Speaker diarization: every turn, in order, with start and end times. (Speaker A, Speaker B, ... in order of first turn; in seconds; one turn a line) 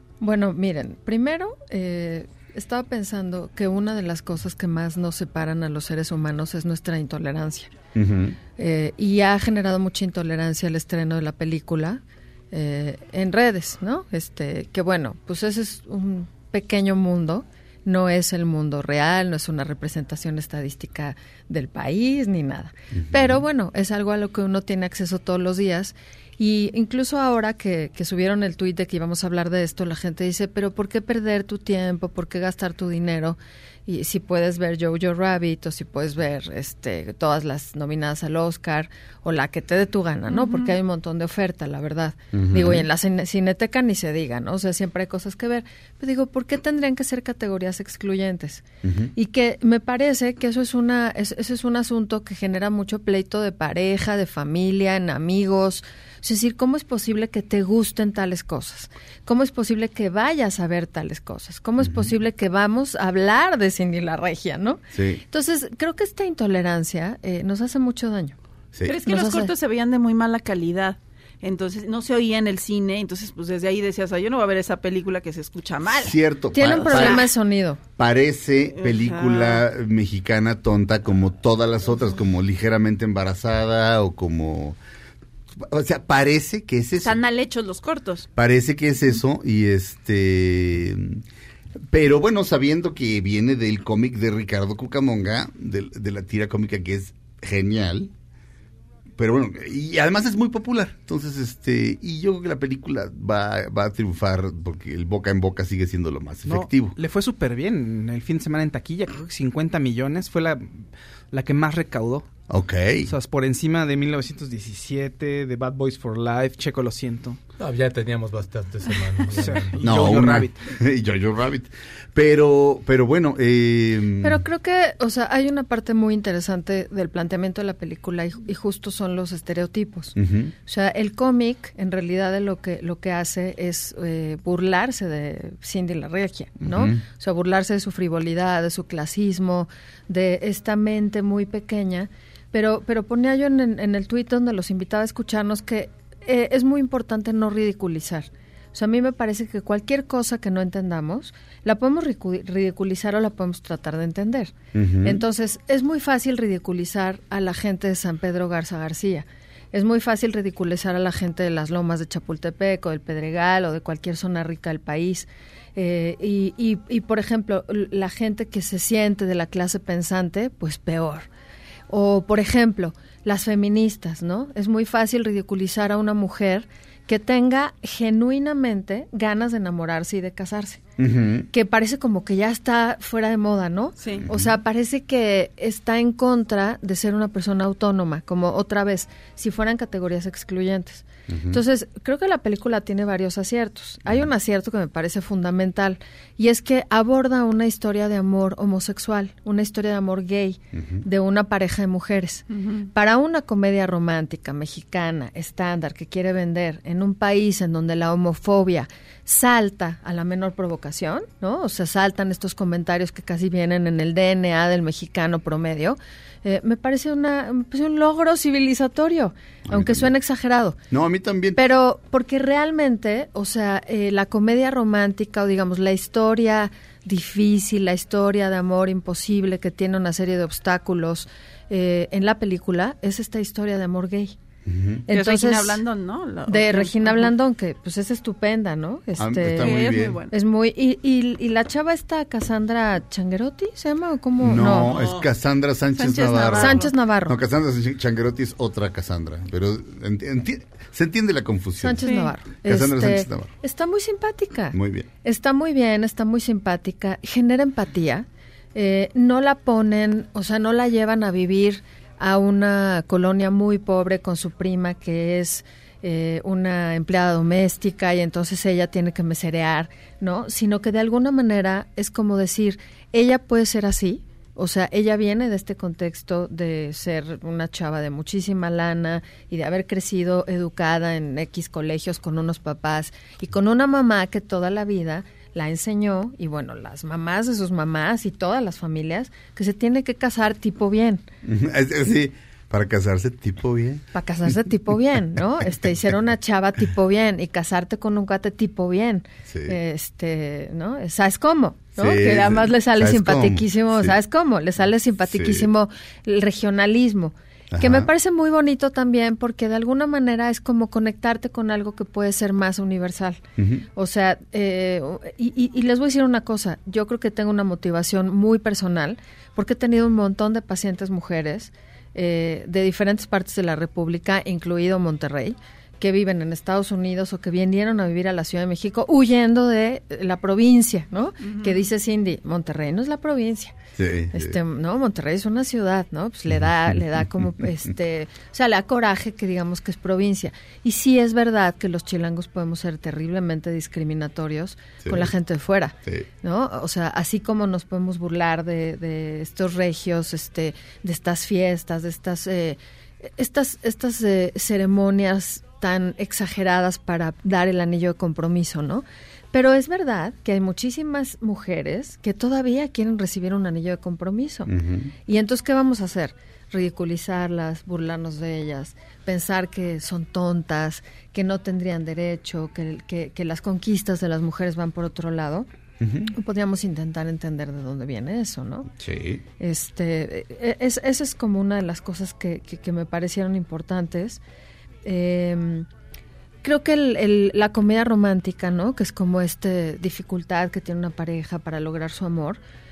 Speaker A: 0.2-7.8
Speaker B: 8.0-8.4
Speaker A: 8.5-48.6
Speaker B: 22.9-23.4
Speaker C: 40.3-40.8
Speaker B: 42.3-42.9
Speaker B: 48.8-49.1
Speaker A: 49.2-68.4
Speaker B: 61.8-62.1
Speaker B: 64.9-65.2
Speaker C: 68.8-77.3
Speaker A: 69.0-69.5
Speaker B: 76.0-77.3
Speaker A: 76.5-77.8
Speaker B: 78.0-84.8
Speaker C: 78.8-79.6
Speaker B: 85.5-87.2
Speaker C: 87.0-88.3
Speaker B: 88.4-91.2
Speaker B: 91.9-98.1
Speaker B: 99.2-107.0
Speaker D: 106.5-112.3
Speaker B: 112.5-113.1
Speaker D: 113.0-117.4
Speaker E: 117.6-119.8
Speaker D: 119.3-120.6
Speaker B: 119.8-124.4
Speaker A: 124.2-171.3
Speaker B: 130.2-130.5
Speaker B: 136.6-137.0
Speaker B: 154.7-155.2
Speaker A: 171.9-180.8
Speaker B: 181.0-181.5
Speaker A: 181.5-220.8
Speaker C: 184.0-184.3
Speaker B: 184.2-184.5
Speaker B: 191.3-191.6
Speaker B: 200.7-201.0
Speaker C: 202.5-202.9
Speaker B: 219.7-220.1
Speaker B: 220.9-221.6
Speaker A: 221.6-234.4
Speaker B: 234.7-235.1
Speaker A: 235.1-235.8
Speaker C: 235.1-237.3
Speaker A: 236.5-244.9
Speaker B: 239.2-240.2
Speaker C: 239.6-240.3
Speaker B: 244.4-252.1
Speaker E: 244.8-245.3
Speaker C: 246.0-246.9
Speaker A: 246.1-247.4
Speaker A: 251.8-291.2
Speaker C: 252.0-252.3
Speaker B: 252.6-253.5
Speaker B: 254.7-255.1
Speaker B: 291.4-294.1
Speaker A: 294.1-313.4
Speaker B: 299.5-299.8
Speaker B: 302.0-304.1
Speaker B: 305.3-305.7
Speaker B: 307.7-308.1
Speaker B: 313.6-313.9
Speaker A: 313.9-333.8
Speaker C: 331.4-331.8
Speaker B: 334.0-334.6
Speaker A: 334.3-364.7
Speaker B: 336.5-337.7
Speaker B: 345.0-345.3
Speaker B: 364.7-365.1
Speaker A: 365.3-375.7
Speaker B: 376.0-376.3
Speaker A: 376.4-378.9
Speaker B: 379.0-379.4
Speaker A: 379.6-384.4
Speaker A: 385.0-385.9
Speaker A: 386.6-392.6